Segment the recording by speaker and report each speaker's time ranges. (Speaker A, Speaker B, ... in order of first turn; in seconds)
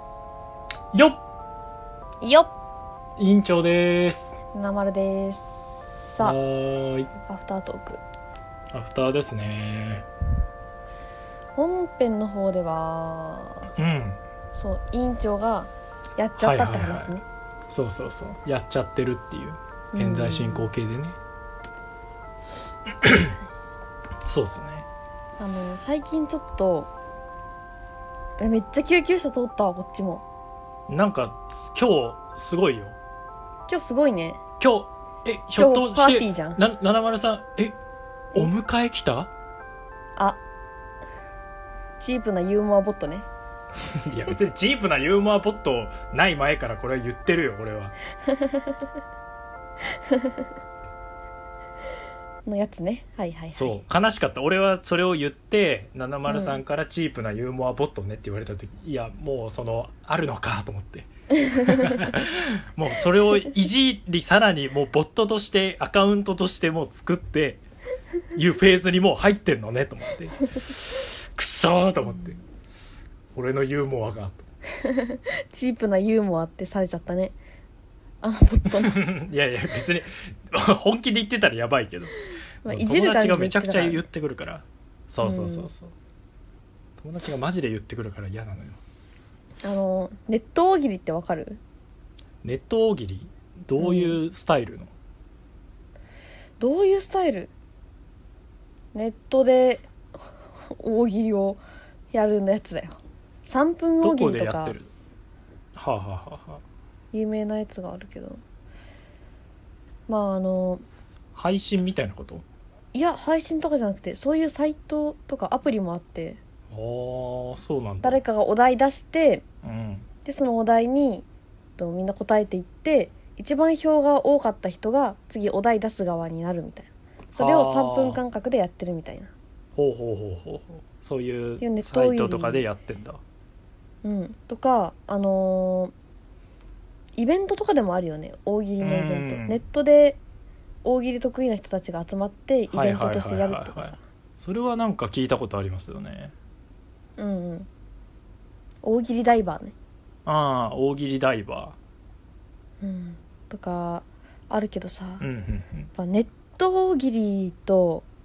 Speaker A: 0.9-1.2, 3.2-4.3, 6.2-7.1, 8.7-10.1, 13.8-14.2, 16.4-21.2, 22.9-23.4, 24.2-24.9, 30.9-33.0, 34.6-37.8, 38.3-39.3, 43.9-47.9, 53.5-67.6, 68.3-72.4, 73.3-74.5, 78.7-82.1, 82.6-85.9, 87.0-88.8, 92.4-94.9, 104.0-104.9, 105.8-106.6, 111.3-112.4, 116.7-118.2, 119.6-120.1, 127.3-128.2, 129.8-133.2, 138.8-139.6, 142.7-146.3, 150.2-151.8, 155.2-155.9
Speaker B: 2.2-2.5, 4.5-5.5, 6.1-6.4, 7.3-8.0, 11.6-13.7, 14.5-17.2, 19.9-20.7, 25.4-26.9, 28.4-30.2, 33.7-34.4, 35.6-36.6, 42.0-43.3, 48.3-48.8, 50.0-50.4, 52.5-53.8, 56.3-56.6, 74.8-77.3, 78.2-79.0, 82.6-84.0, 85.2-85.7, 89.6-91.6, 93.8-94.2, 96.6-97.5, 98.9-99.9, 100.7-101.6, 102.1-104.7, 107.1-108.4, 110.1-110.8, 112.9-116.4, 118.0-119.4, 120.2-121.2, 121.8-129.3, 131.6-132.6, 134.0-135.9, 137.2-140.2, 140.8-144.0, 147.2-147.7, 148.8-149.7, 152.8-155.2, 155.9-158.1